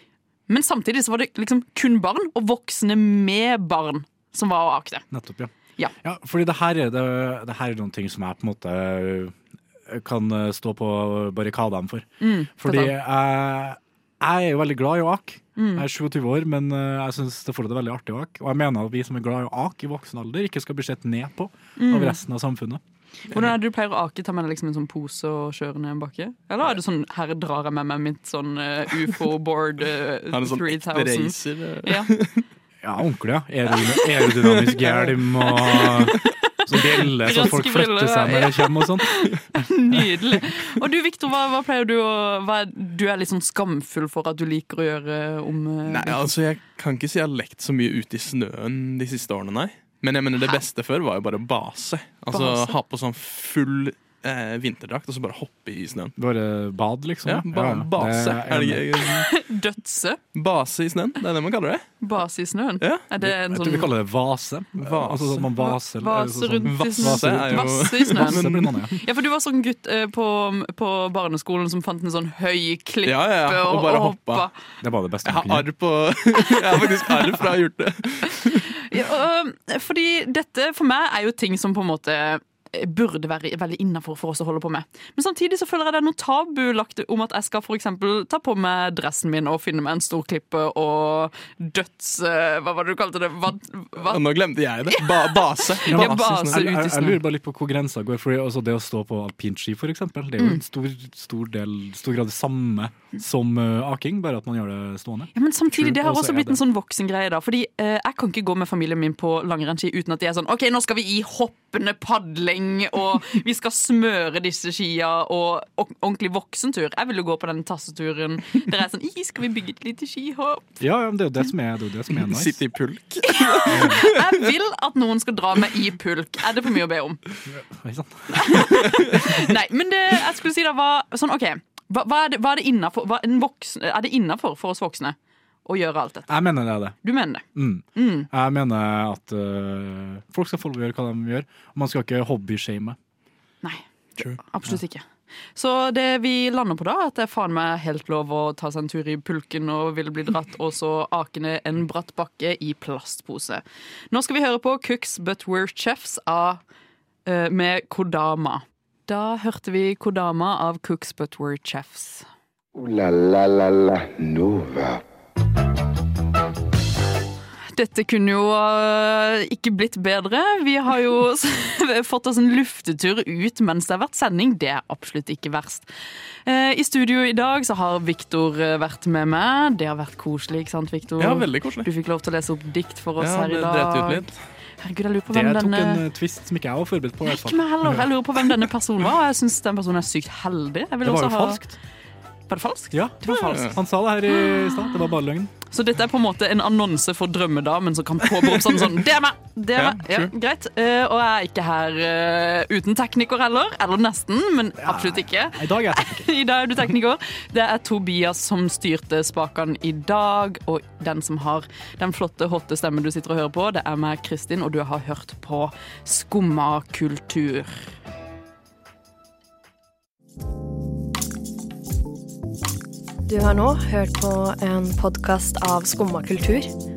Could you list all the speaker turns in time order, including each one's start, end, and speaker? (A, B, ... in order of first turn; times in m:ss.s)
0:00.5-0:05.0 A
0:05.1-0:09.3 B
0:09.9-0:12.1 B
0:12.2-0:12.9 A
0:12.6-0:22.8 B
0:15.6-0:15.8 A
0:21.8-0:22.2 A
0:23.3-0:32.1 A
0:30.3-0:32.4 C
0:32.8-0:39.3 B
0:34.4-0:35.2 C
0:35.5-0:36.3 A
0:36.9-0:46.3 A
0:45.8-0:56.1 C
0:52.3-0:52.8 A
0:56.2-0:58.8 B
0:57.2-0:59.3 C
0:59.0-1:00.2 A
1:00.3-1:01.8 C
1:02.0-1:03.9 A
1:03.2-1:09.0 B
1:04.8-1:05.5 C
1:05.6-1:08.4 A
1:06.6-1:08.7 C
1:09.0-1:14.5 A
1:13.0-1:14.5 C
1:14.8-1:15.7 B
1:15.2-1:18.8 C
1:18.9-1:34.2 A
1:34.0-1:36.6 C
1:34.9-1:37.2 A
1:35.8-1:46.6 B
1:45.3-2:00.6 A
2:00.8-2:02.6 B
2:02.2-2:04.3 C
2:03.2-2:07.2 A
2:03.7-2:04.0 B
2:07.5-2:09.4 B
2:08.3-2:16.4 A
2:16.3-2:17.0 B
2:17.0-2:17.4 A
2:17.5-2:23.0 B
2:18.0-2:18.3 A
2:23.6-2:36.6 A
2:37.2-2:42.2 A
2:42.7-2:45.0 D
2:47.7-2:55.8 A
2:56.4-3:04.3 A
3:01.2-3:01.9 C
3:03.2-3:04.4 C
3:04.8-3:06.0 A
3:05.3-3:08.0 B
3:07.3-3:11.6 A
3:11.0-3:11.8 B
3:12.5-3:13.7 A
3:12.9-3:15.5 B
3:14.3-3:15.1 A
3:15.7-3:37.8 A
3:19.8-3:20.3 C
3:24.8-3:26.3 B
3:43.3-3:46.7 E